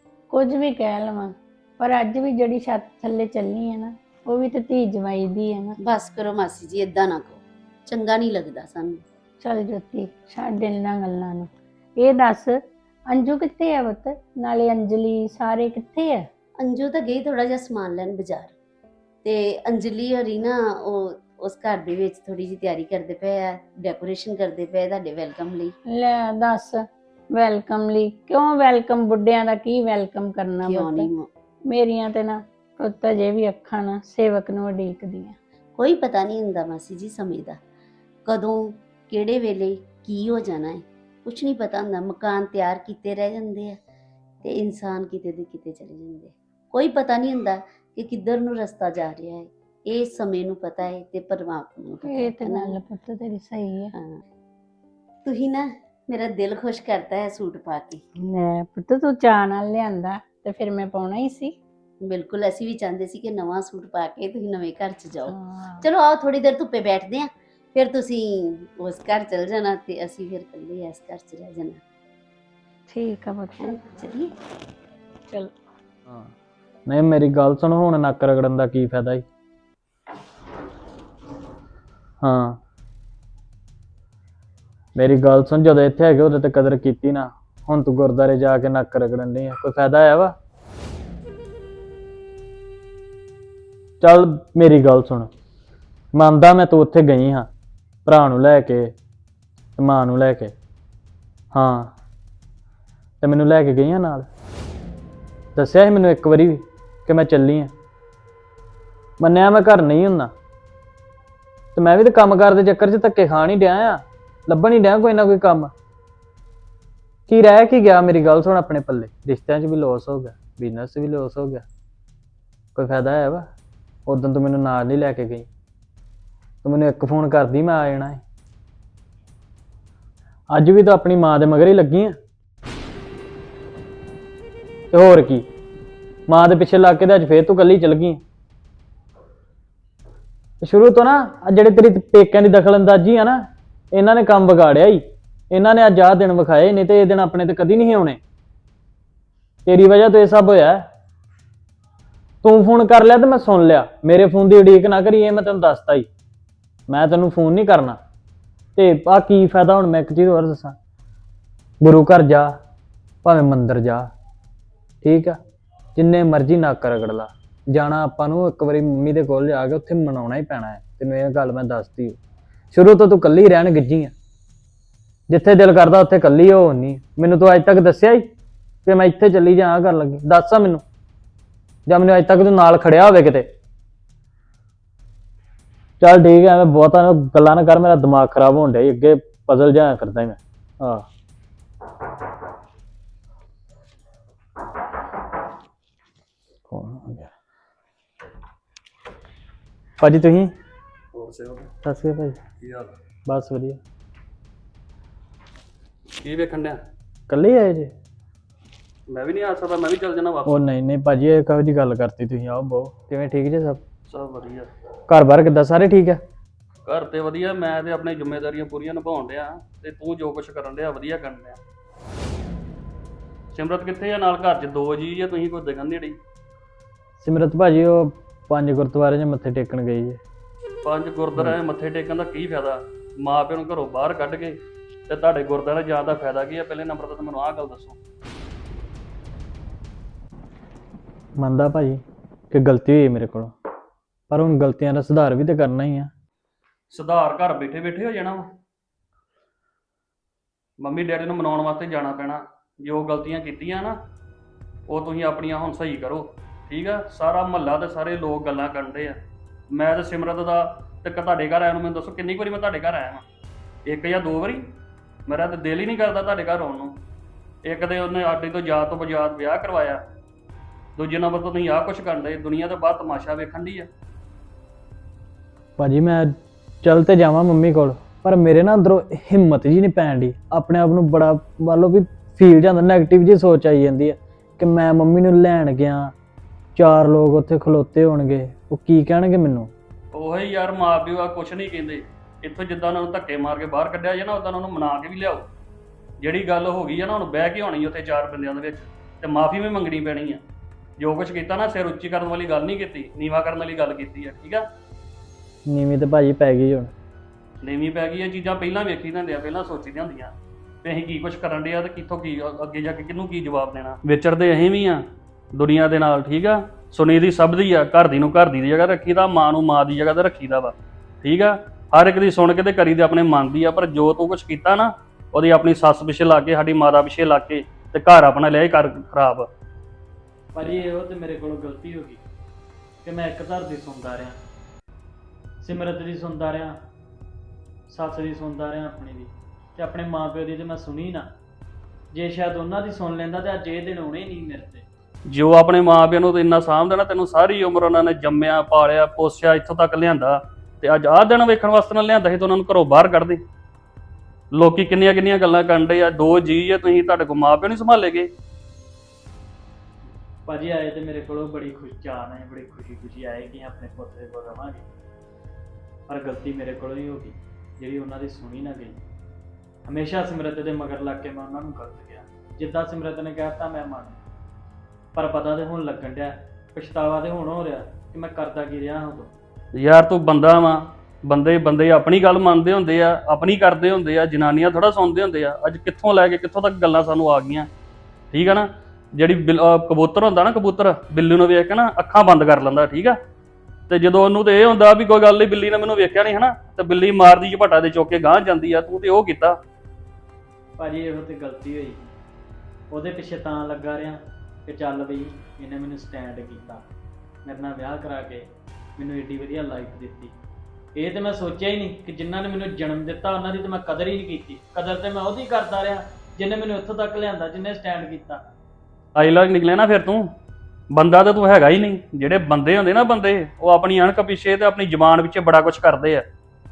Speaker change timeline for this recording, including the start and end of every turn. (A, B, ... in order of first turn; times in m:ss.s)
0:00.3-0:05.8 A
0:05.8-0:09.0 B
0:09.4-0:12.6 A
0:13.1-0:16.2 A
0:16.6-0:18.5 B
0:19.2-0:25.7 B
0:25.9-0:31.1 A
0:30.6-0:31.3 B
0:31.7-0:35.4 A
0:35.8-0:37.6 B
0:38.3-0:43.8 B
0:44.4-0:52.8 B
0:52.0-0:53.9 A
0:55.2-0:58.0 B
0:58.2-1:01.5 A
1:02.0-1:11.8 B
1:05.3-1:05.8 A
1:12.9-1:13.8 A
1:13.6-1:14.3 B
1:16.1-1:16.3 C
1:16.9-1:19.2 C
1:22.2-1:22.6 C
1:25.0-1:30.3 C
1:34.0-1:35.3 C
1:36.1-1:37.5 C
1:38.0-1:38.9 C
1:39.8-1:40.5 C
1:41.5-1:41.9 C
1:43.2-1:44.3 C
1:45.6-1:47.7 C
1:49.2-1:50.3 C
1:51.7-1:55.7 C
1:57.3-2:01.6 C
2:02.7-2:03.5 C
2:04.1-2:05.5 C
2:06.6-2:08.2 C
2:10.5-2:12.2 C
2:14.9-2:15.5 C
2:16.3-2:18.2 C
2:20.6-2:28.2 C
2:29.6-2:30.8 C
2:32.4-2:36.1 C
2:36.9-2:38.0 C
2:38.8-2:40.8 C
2:41.8-2:42.6 C
2:43.2-2:44.1 C
2:45.0-2:45.4 C
2:46.0-2:52.2 C
2:52.7-2:54.1 C
2:55.3-2:58.3 C
2:58.8-3:00.8 C
3:01.9-3:03.5 C
3:06.0-3:11.0 C
3:16.7-3:17.3 C
3:20.0-3:20.5 C
3:21.1-3:21.7 D
3:21.8-3:22.4 C
3:22.6-3:22.9 D
3:23.3-3:23.8 C
3:26.2-3:26.8 D
3:27.3-3:27.9 C
3:29.1-3:30.6 D
3:30.4-3:33.8 C
3:34.1-3:34.7 D
3:35.1-3:36.2 C
3:36.8-3:41.6 D
3:43.5-3:46.2 D
3:47.2-3:50.2 C
3:50.8-3:54.6 D
3:55.1-3:58.0 D
4:01.4-4:03.5 C
4:04.3-4:06.1 C
4:06.9-4:08.5 D
4:10.8-4:14.0 D
4:14.9-4:19.2 D
4:19.7-4:23.2 D
4:23.8-4:24.6 D
4:25.3-4:27.0 D
4:27.6-4:30.0 D
4:31.0-4:33.9 D
4:35.8-4:46.1 C
4:46.7-4:49.7 C
4:50.1-4:55.5 D
4:56.2-5:00.4 D
5:01.0-5:04.6 D
5:05.7-5:06.9 C
5:07.6-5:10.3 D
5:10.8-5:15.0 D
5:15.5-5:29.5 D
5:30.5-5:32.2 C
5:33.0-5:34.4 C
5:35.6-5:36.8 C
5:37.9-5:41.3 C
5:42.1-5:44.8 C
5:45.3-5:53.4 D
5:54.5-5:58.3 D
6:00.4-6:04.8 C
6:06.1-6:09.0 C
6:09.8-6:14.2 C
6:15.1-6:19.3 C
6:19.7-6:27.7 D
6:28.3-6:33.2 D
6:33.9-6:39.6 D
6:40.8-6:42.1 C
6:42.9-6:46.8 C
6:47.4-6:50.3 C
6:50.9-6:58.4 C
6:59.1-7:00.3 D
7:00.9-7:06.2 D